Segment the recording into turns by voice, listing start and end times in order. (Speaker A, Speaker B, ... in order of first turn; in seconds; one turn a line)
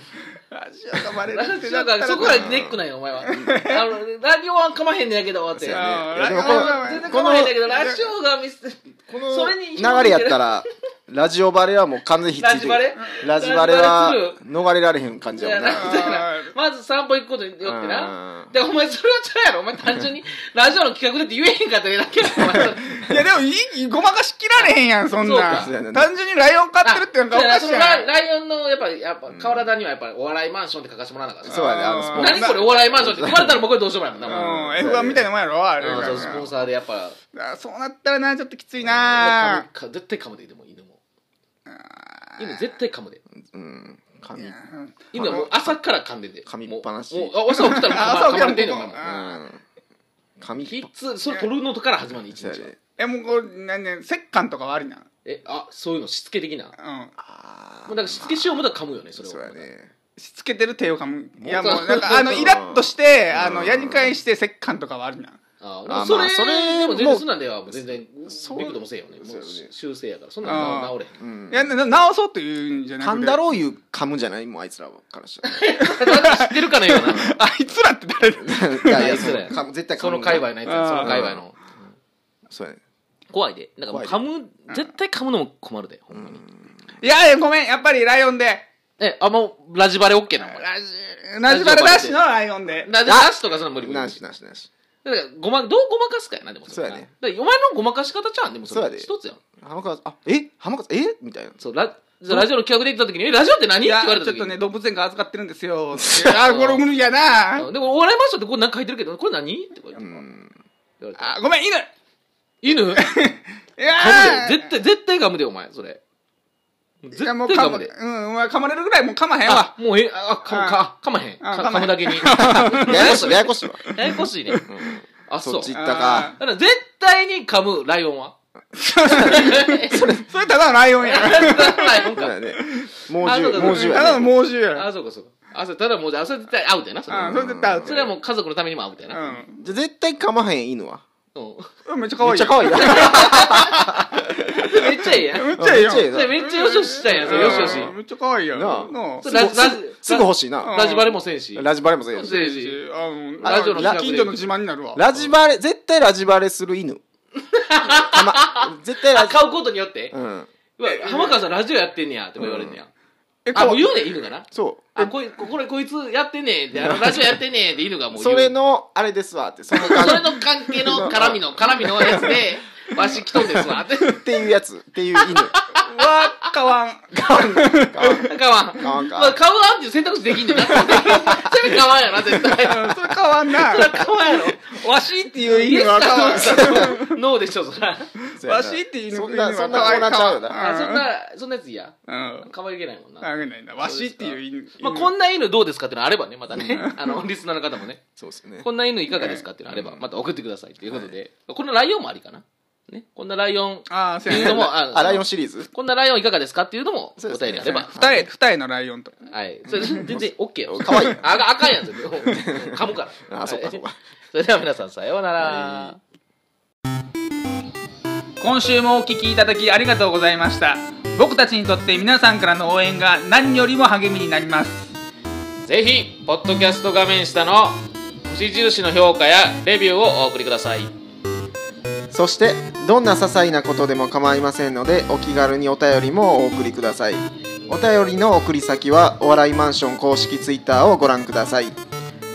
Speaker A: 0.5-2.5
Speaker B: 1.3-10.7
Speaker C: 2.2-2.8
Speaker A: 3.2-3.9
Speaker C: 5.5-7.6
Speaker A: 5.7-8.1
Speaker C: 9.1-16.1
Speaker B: 12.4-14.4
Speaker B: 15.3-23.0
Speaker A: 15.7-16.5
Speaker C: 17.6-18.5
Speaker C: 22.3-23.2
Speaker A: 23.1-28.1
Speaker B: 25.2-25.7
Speaker C: 25.5-26.1
Speaker B: 26.8-34.9
Speaker C: 29.3-29.7
Speaker C: 31.4-33.6
Speaker A: 31.5-32.8
Speaker C: 34.2-35.3
Speaker A: 34.3-36.5
Speaker C: 35.8-36.5
Speaker B: 35.8-37.2
Speaker A: 37.3-39.7
Speaker B: 39.1-41.0
Speaker A: 41.7-42.6
Speaker B: 42.4-43.2
Speaker C: 43.4-44.6
Speaker A: 44.4-45.5
Speaker B: 45.1-49.0
Speaker C: 45.1-45.8
Speaker C: 46.5-47.3
Speaker A: 47.5-49.4
Speaker C: 49.0-49.6
Speaker C: 50.4-50.9
Speaker B: 50.6-52.7
Speaker C: 52.3-52.8
Speaker A: 53.0-55.1
Speaker B: 55.2-56.7
Speaker A: 56.8-57.1
Speaker C: 57.2-58.6
Speaker B: 57.9-59.6
Speaker C: 59.2-59.9
Speaker A: 60.2-65.4
Speaker C: 61.4-64.2
Speaker B: 61.5-62.3
Speaker B: 65.6-71.2
Speaker C: 65.9-69.7
Speaker A: 70.4-70.9
Speaker C: 71.2-71.8
Speaker A: 71.5-73.4
Speaker C: 73.0-75.6
Speaker B: 75.4-77.3
Speaker A: 75.8-79.4
Speaker C: 78.3-80.5
Speaker B: 78.9-81.6
Speaker A: 80.7-81.3
Speaker C: 81.0-81.4
Speaker C: 82.5-82.8
Speaker B: 83.3-86.4
Speaker C: 83.9-84.2
Speaker C: 86.1-86.8
Speaker A: 87.0-88.7
Speaker B: 89.0-90.7
Speaker A: 90.4-92.9
Speaker B: 91.4-92.2
Speaker B: 92.8-94.2
Speaker C: 93.0-94.7
Speaker B: 95.0-99.4
Speaker C: 96.7-97.1
Speaker C: 98.7-99.1
Speaker C: 99.6-101.6
Speaker B: 101.6-104.6
Speaker A: 103.8-107.7
Speaker B: 106.2-106.9
Speaker B: 107.6-110.2
Speaker C: 110.0-110.5
Speaker B: 111.0-111.4
Speaker A: 111.2-111.9
Speaker B: 112.6-113.1
Speaker A: 113.0-114.7
Speaker B: 113.9-116.0
Speaker B: 117.0-117.9
Speaker A: 117.1-119.8
Speaker B: 119.5-124.7
Speaker A: 120.5-120.8
Speaker A: 121.4-123.3
Speaker C: 122.4-124.0
Speaker C: 124.6-126.4
Speaker B: 125.3-125.8
Speaker A: 125.7-126.4
Speaker B: 126.4-128.4
Speaker A: 128.8-132.1
Speaker B: 129.0-130.2
Speaker C: 129.1-129.6
Speaker B: 131.0-132.4
Speaker C: 132.1-134.3
Speaker B: 133.2-139.4
Speaker A: 133.6-134.9
Speaker C: 137.1-138.1
Speaker A: 137.1-138.2
Speaker A: 139.1-139.6
Speaker C: 139.6-141.0
Speaker B: 141.3-141.7
Speaker A: 141.9-143.9
Speaker C: 142.2-145.0
Speaker B: 142.6-147.9
Speaker A: 145.3-149.3
Speaker C: 145.6-146.4
Speaker C: 147.1-148.0
Speaker C: 148.5-150.8
Speaker B: 149.2-152.8
Speaker A: 150.6-151.2
Speaker C: 151.6-152.4
Speaker A: 152.2-155.0
Speaker B: 153.4-154.5
Speaker C: 153.4-154.4
Speaker C: 154.9-157.0
Speaker B: 157.5-160.2
Speaker C: 157.9-159.5
Speaker C: 160.1-160.5
Speaker B: 160.8-162.9
Speaker A: 160.8-161.4
Speaker C: 162.4-162.8
Speaker A: 163.5-164.1
Speaker B: 163.5-168.5
Speaker C: 164.5-164.9
Speaker C: 166.8-167.4
Speaker C: 168.2-172.4
Speaker B: 169.7-174.2
Speaker C: 172.9-175.6
Speaker B: 175.5-175.8
Speaker A: 175.8-178.3
Speaker C: 177.1-179.4
Speaker B: 178.2-184.8
Speaker C: 180.6-181.7
Speaker A: 182.6-184.0
Speaker A: 184.6-187.2
Speaker B: 185.5-188.1
Speaker C: 186.0-187.0
Speaker C: 188.3-190.6
Speaker A: 188.4-191.1
Speaker B: 190.5-193.3
Speaker A: 192.1-192.5
Speaker A: 193.2-195.1
Speaker B: 193.8-198.0
Speaker A: 196.6-197.1
Speaker C: 198.2-198.7
Speaker B: 198.6-207.9
Speaker C: 199.7-200.1
Speaker C: 200.8-201.1
Speaker A: 203.9-204.7
Speaker C: 204.3-205.7
Speaker C: 207.2-208.3
Speaker A: 207.6-209.1
Speaker B: 209.3-216.0
Speaker C: 209.7-211.4
Speaker C: 212.2-214.0
Speaker C: 215.4-216.0
Speaker A: 218.4-224.9
Speaker B: 225.7-230.9
Speaker C: 232.1-241.8